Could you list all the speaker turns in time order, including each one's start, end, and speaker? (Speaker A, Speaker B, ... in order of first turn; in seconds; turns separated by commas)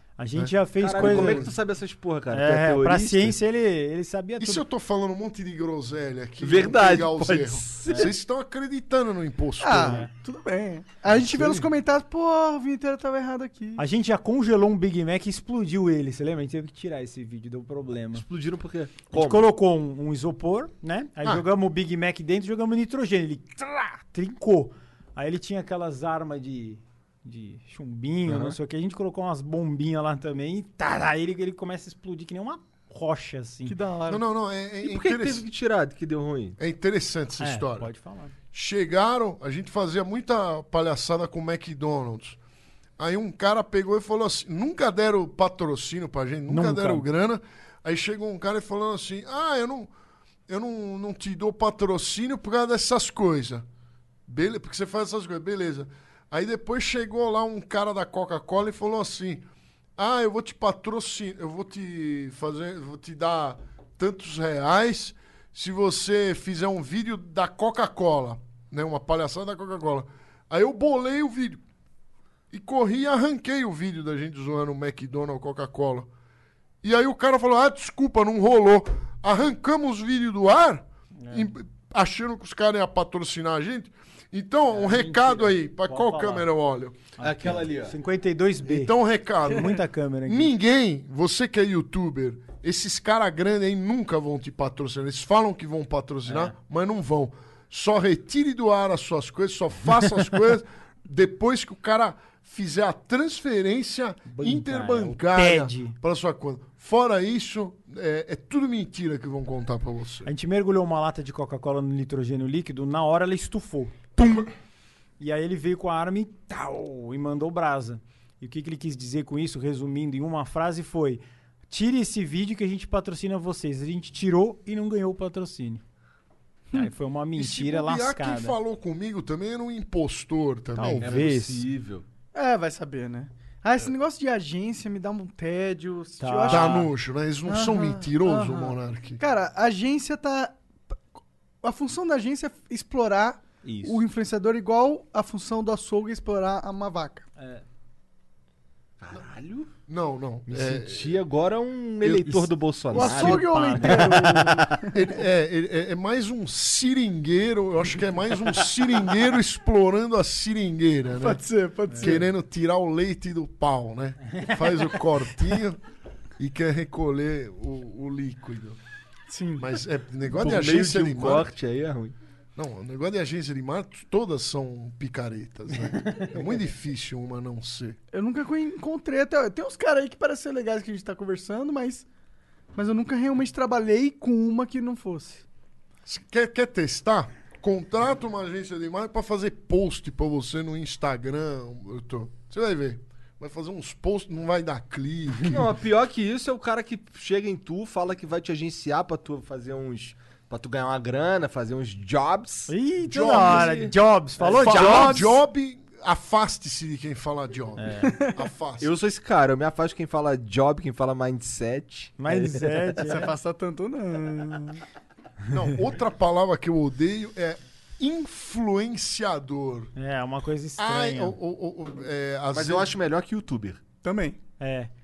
Speaker A: 0.2-1.5, Speaker B: 0.3-1.5, Speaker C: 0.8-3.4, Speaker A: 2.3-4.6, Speaker B: 4.4-10.1, Speaker C: 6.4-8.1, Speaker D: 9.6-13.8, Speaker A: 9.8-10.1, Speaker B: 11.1-11.7, Speaker A: 13.8-18.2, Speaker C: 18.1-19.5, Speaker A: 19.1-33.8, Speaker C: 28.3-28.6, Speaker D: 33.7-34.2, Speaker B: 34.1-35.5, Speaker C: 34.9-36.6, Speaker B: 36.6-37.9, Speaker A: 37.4-38.3, Speaker B: 38.5-42.4, Speaker B: 43.0-49.9, Speaker A: 46.5-47.0, Speaker B: 50.5-53.7, Speaker B: 54.3-59.5, Speaker B: 60.0-71.6, Speaker B: 72.5-76.1, Speaker B: 76.8-87.1, Speaker A: 81.2-81.5, Speaker A: 84.7-86.5, Speaker A: 87.2-88.9, Speaker C: 87.2-88.0, Speaker B: 88.6-110.3, Speaker A: 89.5-90.5, Speaker A: 96.3-96.5, Speaker A: 104.3-106.0, Speaker A: 110.2-114.5, Speaker A: 115.2-125.8, Speaker A: 126.7-128.6, Speaker B: 127.4-131.2, Speaker A: 130.8-131.6, Speaker C: 130.9-132.0, Speaker D: 132.3-136.9, Speaker A: 136.2-136.9, Speaker B: 136.4-139.2, Speaker D: 137.5-140.6, Speaker D: 141.6-147.3, Speaker A: 143.6-144.0, Speaker A: 147.4-147.6, Speaker C: 149.0-149.7, Speaker B: 149.9-151.2, Speaker C: 150.5-153.5, Speaker B: 152.0-152.5, Speaker D: 152.9-155.0, Speaker A: 152.9-154.2, Speaker B: 153.9-161.4, Speaker D: 161.2-162.2, Speaker A: 161.9-162.1, Speaker B: 162.0-165.8, Speaker A: 164.3-164.6, Speaker B: 166.4-168.8, Speaker D: 169.3-169.7, Speaker B: 169.6-171.5, Speaker C: 170.3-172.2, Speaker B: 172.6-178.0, Speaker D: 178.1-182.1, Speaker D: 182.8-185.4, Speaker B: 186.1-195.7, Speaker C: 195.5-205.3, Speaker A: 202.7-205.2, Speaker B: 203.4-203.7, Speaker B: 204.5-208.9, Speaker A: 207.8-208.1, Speaker C: 208.8-212.8, Speaker A: 212.2-213.3, Speaker D: 213.0-214.8, Speaker B: 215.5-219.9, Speaker A: 220.0-221.4, Speaker B: 220.8-222.9, Speaker C: 222.5-223.8, Speaker D: 224.0-224.4, Speaker A: 224.6-224.9